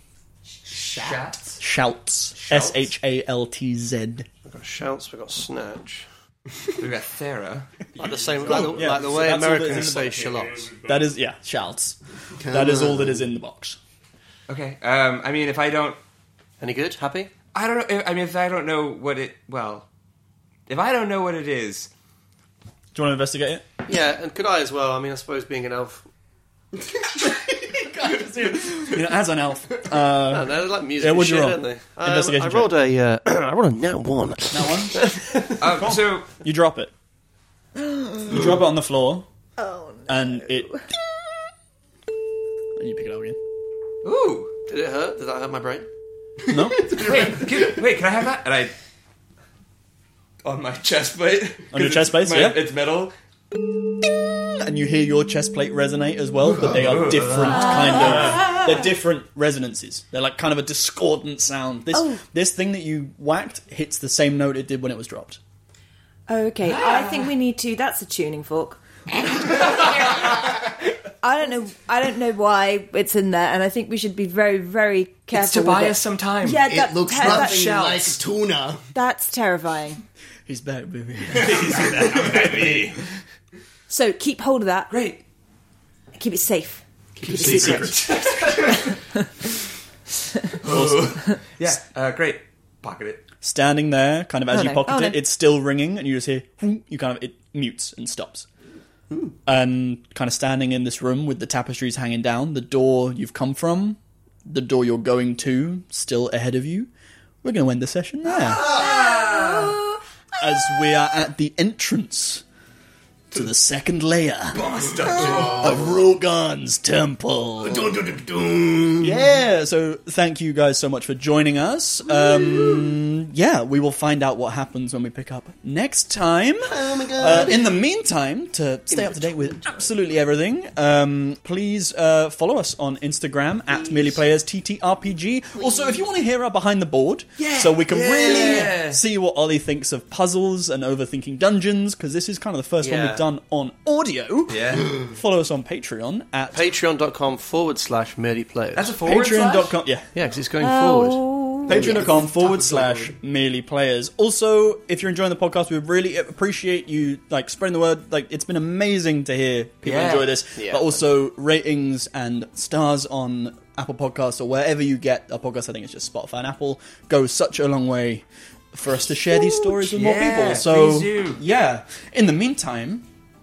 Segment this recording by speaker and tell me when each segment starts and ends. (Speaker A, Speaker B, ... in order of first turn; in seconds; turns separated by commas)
Speaker A: 0.7-1.6, Speaker B: 0.8-1.2, Speaker C: 1.6-4.3, Speaker A: 2.4-2.8, Speaker D: 4.5-6.1, Speaker A: 6.7-8.1, Speaker D: 8.0-10.7, Speaker C: 8.4-13.8, Speaker B: 12.4-13.2, Speaker A: 14.5-16.0, Speaker D: 16.6-17.3, Speaker A: 17.5-19.9, Speaker A: 20.7-21.9, Speaker C: 22.9-23.6, Speaker D: 23.9-26.1, Speaker C: 27.8-32.7, Speaker D: 30.3-35.6, Speaker C: 34.5-36.9, Speaker A: 35.6-36.3, Speaker E: 37.8-38.3, Speaker C: 38.2-39.3, Speaker E: 39.6-40.9, Speaker C: 40.1-40.8, Speaker C: 42.8-43.4, Speaker A: 44.0-44.5, Speaker D: 44.7-45.9, Speaker C: 46.5-47.1, Speaker B: 46.8-47.7, Speaker A: 46.9-48.7, Speaker A: 50.4-53.1, Speaker C: 51.7-52.6, Speaker C: 54.5-65.4, Speaker A: 56.4-58.6, Speaker E: 57.4-58.7, Speaker E: 61.9-62.2, Speaker E: 66.3-70.7, Speaker A: 66.6-67.3, Speaker E: 71.2-77.9, Speaker A: 75.3-78.2, Speaker B: 76.6-78.9, Speaker E: 78.9-80.0, Speaker C: 80.5-82.7, Speaker A: 81.3-83.0, Speaker E: 83.9-84.9, Speaker A: 84.9-85.2, Speaker E: 86.1-88.0, Speaker B: 87.2-88.6, Speaker A: 87.3-88.9, Speaker E: 88.7-89.0, Speaker A: 90.6-93.2, Speaker C: 90.6-91.2, Speaker C: 93.4-98.5, Speaker E: 94.5-95.2, Speaker C: 99.5-106.9, Speaker C: 107.4-108.7, Speaker A: 108.6-109.7, Speaker E: 108.7-109.8, Speaker C: 110.4-112.4, Speaker C: 113.3-118.0, Speaker A: 114.6-115.7, Speaker B: 117.6-119.3, Speaker C: 119.0-146.7, Speaker B: 126.7-127.7, Speaker D: 128.9-129.5, Speaker A: 137.4-139.0, Speaker D: 138.1-138.7, Speaker D: 142.8-143.2, Speaker A: 144.5-144.9, Speaker D: 146.5-148.9, Speaker A: 148.7-149.8, Speaker C: 149.0-150.1, Speaker D: 150.1-151.2, Speaker E: 150.6-152.1, Speaker C: 151.7-173.1, Speaker A: 159.8-160.3, Speaker D: 160.5-160.9, Speaker A: 169.8-171.4